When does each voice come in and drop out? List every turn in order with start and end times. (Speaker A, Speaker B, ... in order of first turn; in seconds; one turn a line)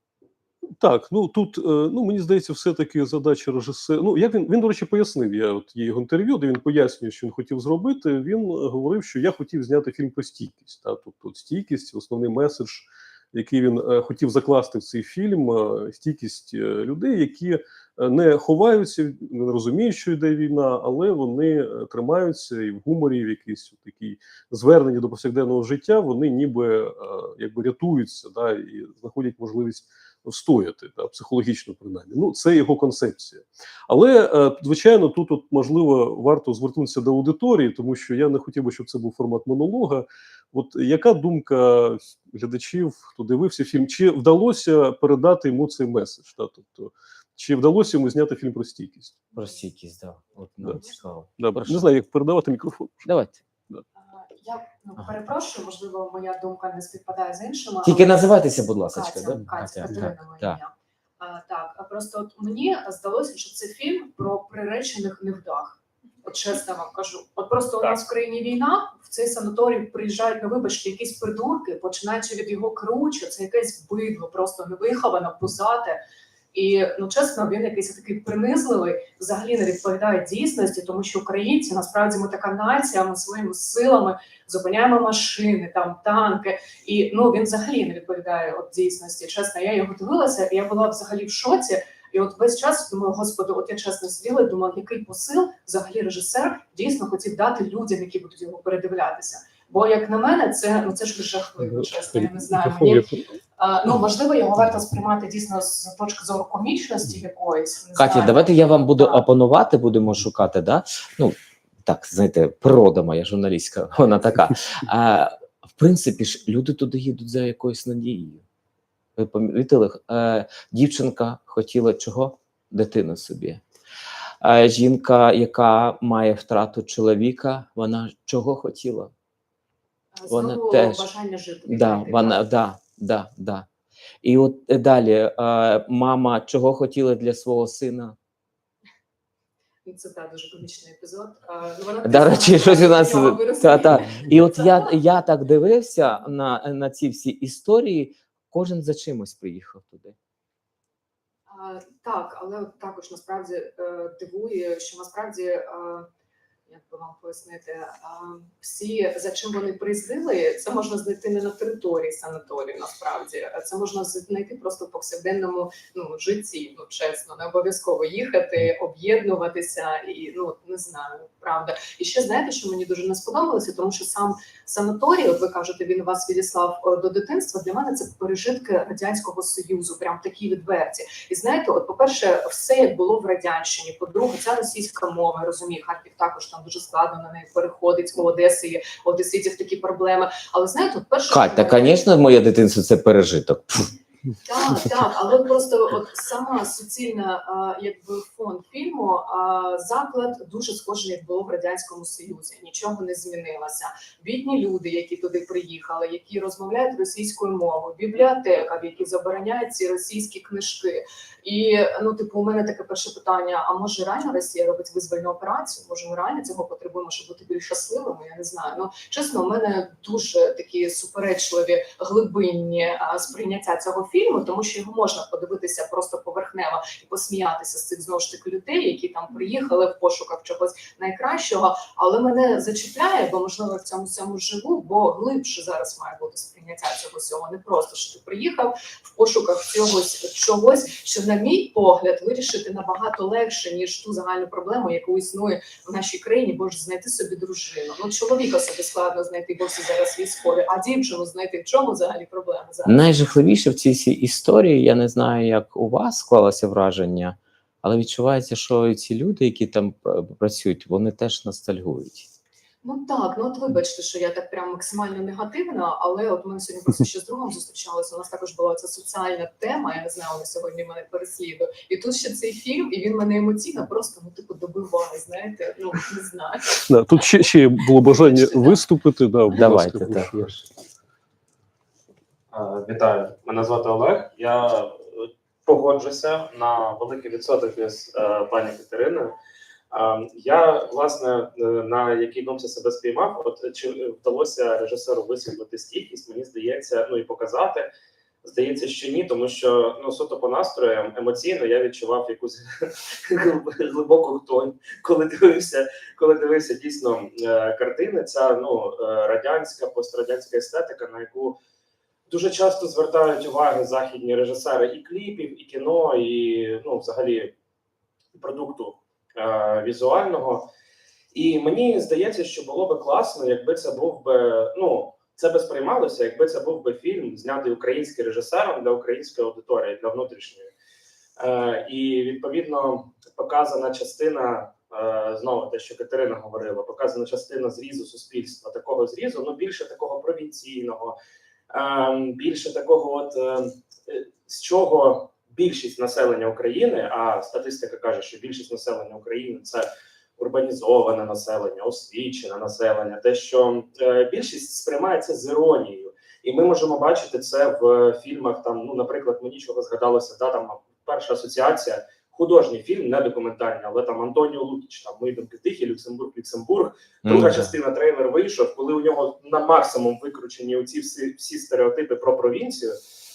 Speaker A: 0.8-49.1
Speaker B: 49.3-51.8
Speaker A: 51.4-53.1
Speaker B: 53.0-53.4
Speaker C: 54.0-58.2
Speaker B: 57.8-60.6
Speaker C: 58.9-76.0
Speaker C: 76.5-109.2
Speaker A: 102.8-103.2
Speaker B: 107.9-118.4
Speaker B: 119.2-123.6
Speaker B: 124.4-129.1
Speaker C: 130.2-132.4
Speaker B: 130.3-131.0
Speaker B: 131.7-133.7
Speaker B: 134.2-138.2
Speaker C: 139.8-144.9
Speaker B: 142.0-150.2
Speaker C: 151.5-156.1
Speaker C: 156.7-192.0
Speaker B: 191.3-193.9
Speaker C: 194.4-253.0
Speaker B: 252.8-262.3
Speaker C: 262.8-276.8
Speaker A: 276.9-280.6
Speaker C: 278.0-278.8
Speaker B: 279.5-280.6
Speaker D: 282.5-289.3
Speaker D: 289.9-297.9
Speaker D: 298.4-311.6
Speaker D: 312.3-317.5
Speaker D: 318.4-320.7
Speaker D: 321.3-330.7
Speaker D: 331.4-341.1
Speaker D: 341.7-349.9
Speaker D: 350.4-373.0
Speaker B: 367.2-367.7